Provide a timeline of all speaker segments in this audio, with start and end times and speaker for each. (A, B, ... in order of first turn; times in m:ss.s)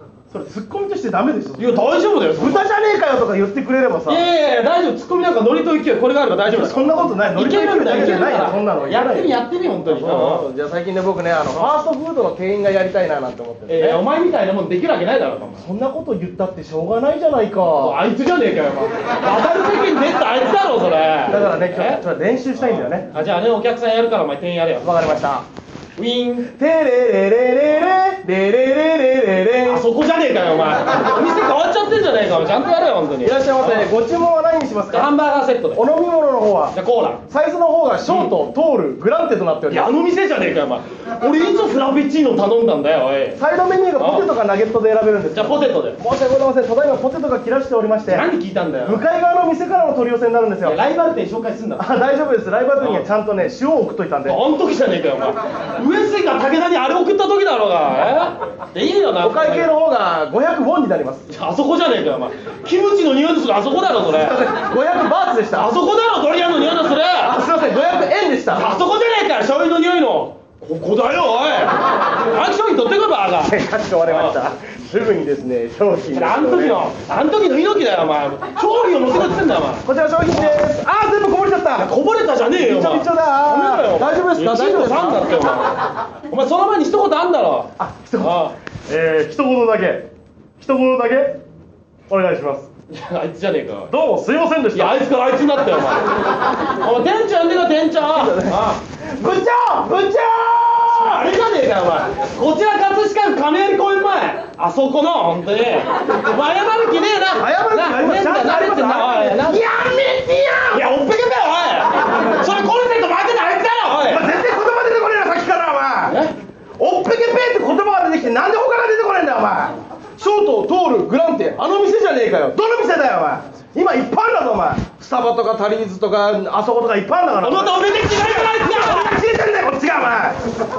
0:00.3-0:04.2 A
0:01.6-0:02.7 B
0:04.1-0:10.4 B
0:06.5-0:14.0 A
0:11.5-0:11.7 B
0:13.7-0:15.6 B
0:15.6-0:18.0 A
0:17.8-0:22.0 B
0:21.3-0:23.1 A
0:22.6-0:25.2 B
0:24.8-0:25.4 A
0:26.0-0:26.5 B
0:26.5-0:29.9 A
0:29.7-0:33.9 B
0:33.2-0:35.1 A
0:34.9-0:35.8 B
0:35.7-0:36.8 A
0:36.7-0:37.2 B
0:37.3-0:39.9 A
0:38.1-0:38.3 B
0:39.7-0:43.4 B
0:43.4-0:48.3 A
0:44.0-0:44.3 B
0:45.3-0:46.0 B
0:48.1-0:49.0 B
0:48.8-0:50.8 A
0:50.6-0:51.8 B
0:51.8-0:54.4 A
0:52.8-0:53.0 B
0:54.2-0:59.7 B
0:59.2-1:01.3 A
1:01.3-1:04.5 B
1:04.1-1:05.7 A
1:05.5-1:07.4 B
1:07.2-1:08.7 A
1:08.5-1:14.5 B
1:13.4-1:16.9 A
1:16.1-1:20.7 B
1:19.8-1:21.9 A
1:21.8-1:28.5 B
1:22.6-1:25.3 A
1:27.8-1:30.1 A
1:30.6-1:31.4 A
1:32.1-1:32.7 A
1:32.9-1:33.9 B
1:33.9-1:35.1 A
1:34.7-1:38.8 B
1:38.1-1:38.6 A
1:39.2-1:41.3 A
1:40.9-1:49.7 B
1:47.4-1:50.8 A
1:50.7-1:54.3 B
1:54.0-1:56.2 A
1:56.1-1:56.3 B
1:56.8-2:10.4 A
2:07.4-2:09.2 B